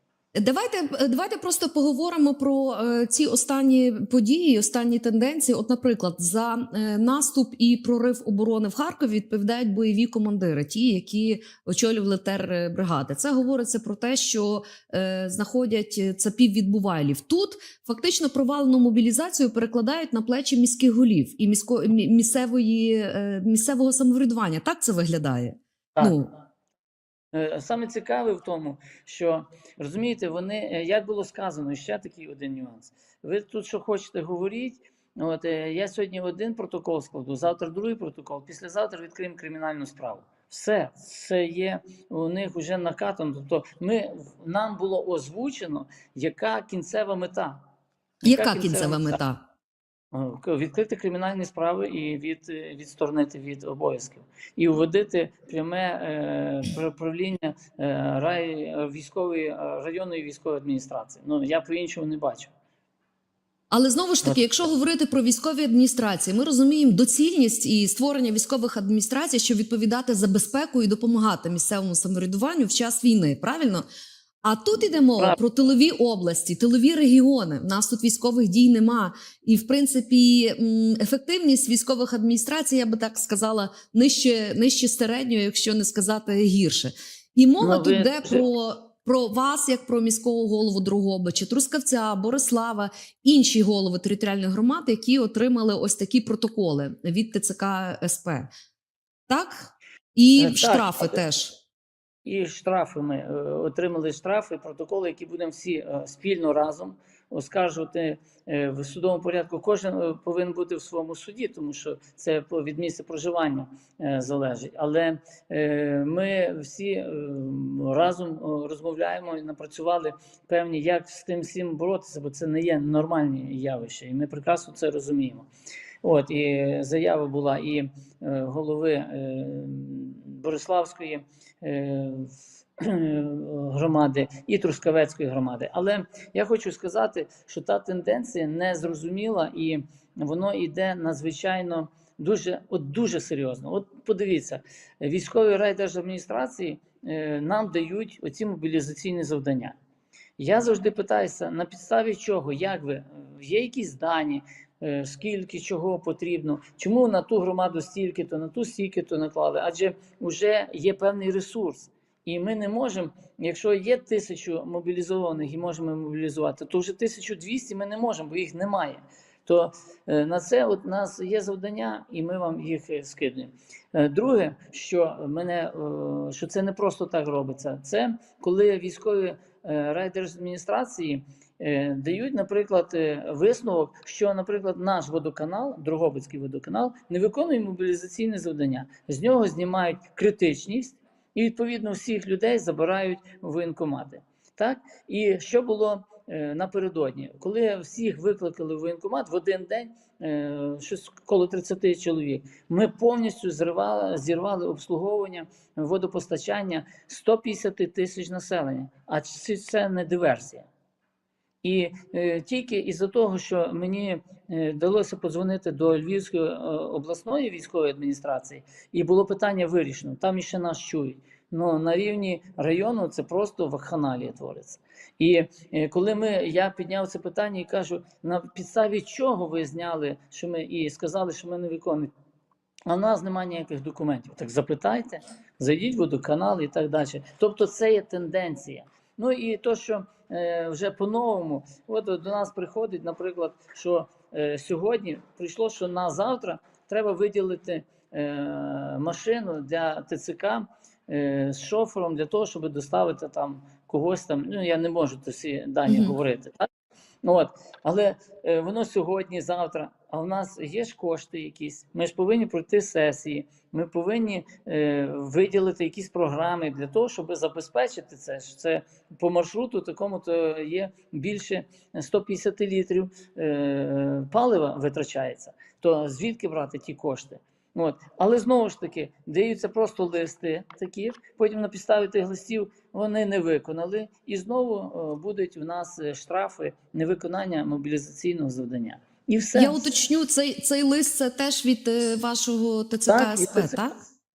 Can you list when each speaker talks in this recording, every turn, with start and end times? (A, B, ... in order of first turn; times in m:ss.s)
0:00.3-0:26.3 A
0:27.3-0:47.6 B
0:48.2-0:49.2 B
0:48.2-0:49.4 A
0:50.1-1:02.5 B
1:03.7-1:13.8 A
1:14.4-1:38.5 A
1:27.6-1:28.4 B
1:39.3-1:41.5 A
1:40.4-1:41.2 B
1:42.2-2:05.5 B
2:06.0-2:29.8 B
2:30.4-3:30.6 B
3:31.6-3:52.1 B
3:52.9-4:16.7 B
4:15.9-4:16.1 A
4:17.2-4:49.8 B
4:49.5-4:53.9 A
4:53.1-4:53.9 B